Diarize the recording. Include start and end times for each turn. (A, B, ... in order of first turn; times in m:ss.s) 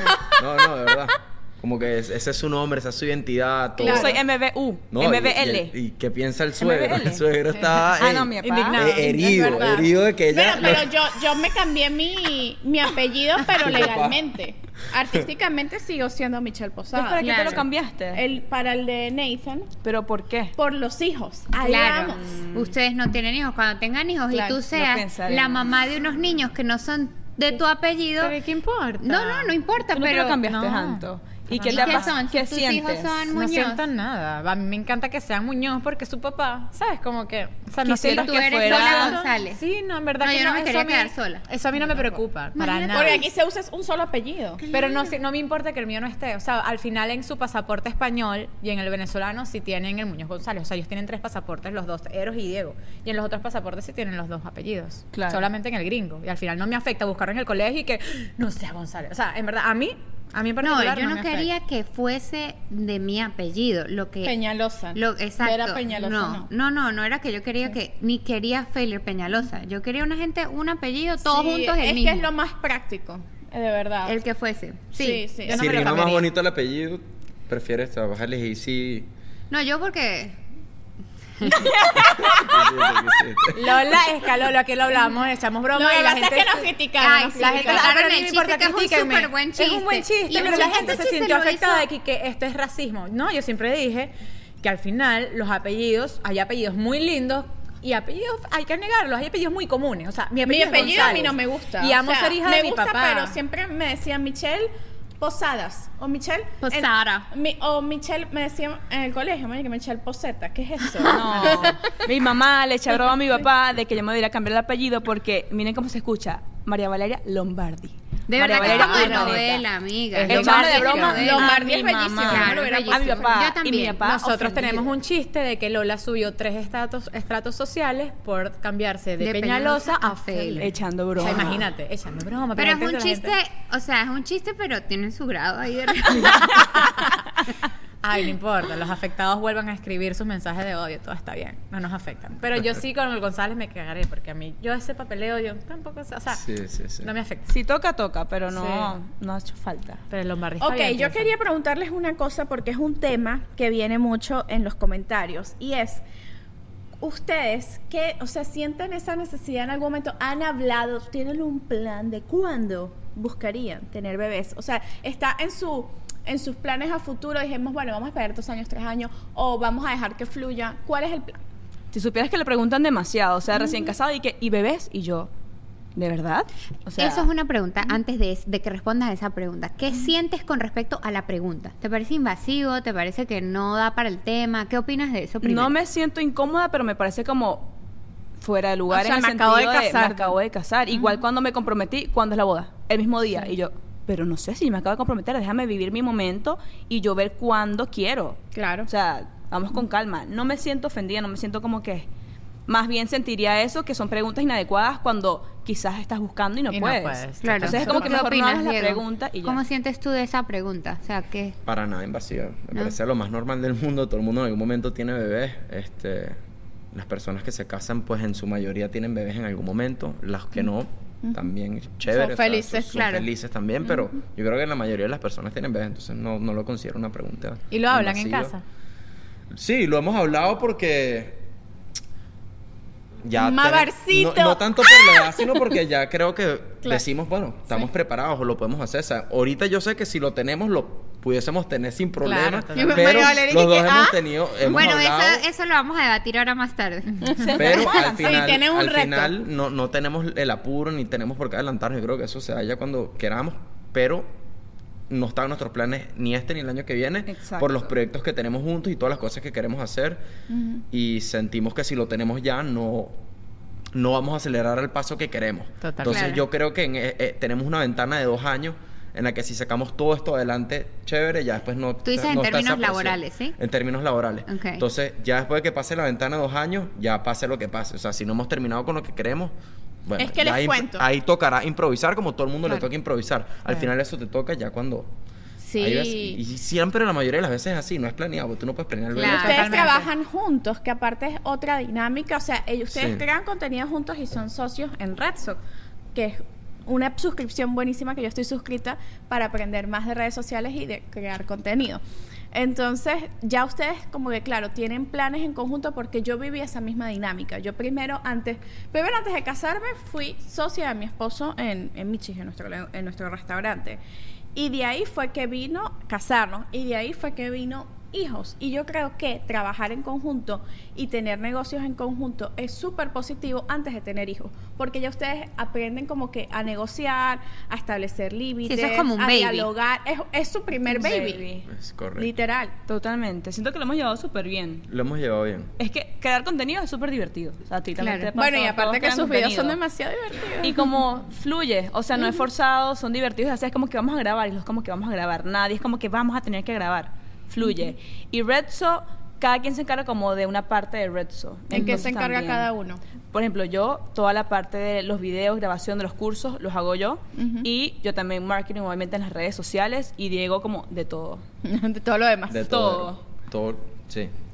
0:00.2-0:04.2 A
0:03.8-0:05.8 B
0:03.8-0:04.1 C
0:04.9-0:11.1 A
0:06.6-0:07.2 B
0:08.0-0:08.8 B
0:08.4-0:09.4 D
0:09.0-0:17.4 C
0:13.5-0:14.2 A
0:16.9-0:18.2 B
0:17.2-0:17.7 E
0:18.1-0:19.7 C
0:19.8-0:20.5 B
0:20.6-0:22.3 C
0:21.6-0:28.4 E
0:22.3-0:22.7 B
0:24.3-0:24.6 C
0:24.7-0:25.7 B
0:28.2-0:29.5 D
0:29.0-0:30.5 E
0:29.9-0:33.3 B
0:30.4-0:32.2 D
0:31.7-0:33.8 E
0:33.3-0:43.3 D
0:37.8-0:39.2 B
0:38.0-0:39.6 E
0:40.2-0:41.4 E
0:42.5-0:43.3 E
0:42.9-0:44.6 C
0:44.6-0:45.1 E
0:44.7-1:01.5 D
0:55.1-0:55.5 B
1:00.6-1:12.3 E
1:04.2-1:06.5 C
1:11.2-1:14.2 C
1:14.0-1:15.4 E
1:15.0-1:15.9 C
1:15.5-1:16.3 D
1:15.5-1:19.1 A
1:19.5-1:20.4 E
1:21.4-1:21.7 E
1:21.5-1:22.7 C
1:22.2-1:23.6 A
1:23.5-1:26.7 D
1:25.7-1:27.9 C
1:27.0-1:31.9 E
1:27.4-1:43.4 D
1:30.3-1:31.0 C
1:40.4-1:52.0 C
1:46.6-1:47.2 E
1:46.7-1:47.2 D
1:51.1-1:59.7 B
1:51.4-1:51.7 D
1:58.3-2:04.0 E
1:58.6-1:59.4 D
2:00.2-2:01.3 D
2:00.2-2:04.8 B
2:01.0-2:03.4 C
2:04.0-2:13.4 D
2:09.2-2:10.7 E
2:10.6-2:11.7 B
2:12.6-2:17.1 E
2:18.0-2:26.4 D
2:26.4-2:27.1 A
2:27.0-2:27.5 D
2:27.5-2:30.0 B
2:28.5-2:28.9 D
2:30.1-2:31.4 D
2:30.6-2:36.0 C
2:37.0-2:51.4 C
2:51.9-2:55.3 B
2:53.6-2:53.9 C
2:56.0-2:57.3 B
2:57.0-3:05.7 E
3:05.4-3:07.7 B
3:08.4-3:22.1 B
3:08.9-3:10.4 C
3:10.9-3:11.2 C
3:18.5-3:18.9 C
3:22.7-3:29.6 B
3:26.7-3:28.0 D
3:27.4-3:31.6 E
3:31.7-3:36.4 A
3:36.9-3:48.6 A
3:41.2-3:41.5 C
3:42.1-3:43.0 C
3:42.9-3:43.3 E
3:47.7-3:48.6 D
3:49.5-3:51.4 A
3:53.2-4:05.4 A
3:53.4-3:55.6 C
4:02.2-4:03.3 D
4:02.7-4:04.2 C
4:04.6-4:07.4 E
4:07.4-4:07.9 B
4:07.6-4:14.3 A
4:08.0-4:09.0 C
4:08.2-4:08.4 D
4:15.1-4:20.2 A
4:17.3-4:17.9 B
4:20.5-4:20.8 C
4:20.9-4:23.2 A
4:23.9-4:39.5 A
4:25.8-4:26.4 D
4:26.0-4:26.4 E
4:32.0-4:33.6 E
4:34.5-4:34.8 E
4:40.0-4:45.1 A
4:40.2-4:41.0 C
4:45.6-4:46.4 C
4:45.8-4:49.9 A
4:49.2-4:50.0 E
4:49.3-4:50.1 D
4:49.3-4:55.6 C
4:52.9-4:53.2 A
4:56.1-5:14.0 C
5:14.5-5:31.5 C
5:28.6-5:29.7 E
5:30.9-5:31.6 B
5:31.7-5:32.3 A
5:32.2-5:32.7 C
5:32.9-5:34.9 B
5:34.9-5:35.7 A
5:35.8-5:39.8 B
5:38.0-5:38.3 E
5:38.4-5:40.9 C
5:40.6-5:52.7 B
5:42.2-5:42.4 C
5:51.7-5:53.0 C
5:53.3-6:01.4 B
5:57.4-5:57.7 C
6:01.6-6:02.6 C
6:02.5-6:04.3 A
6:02.7-6:03.2 B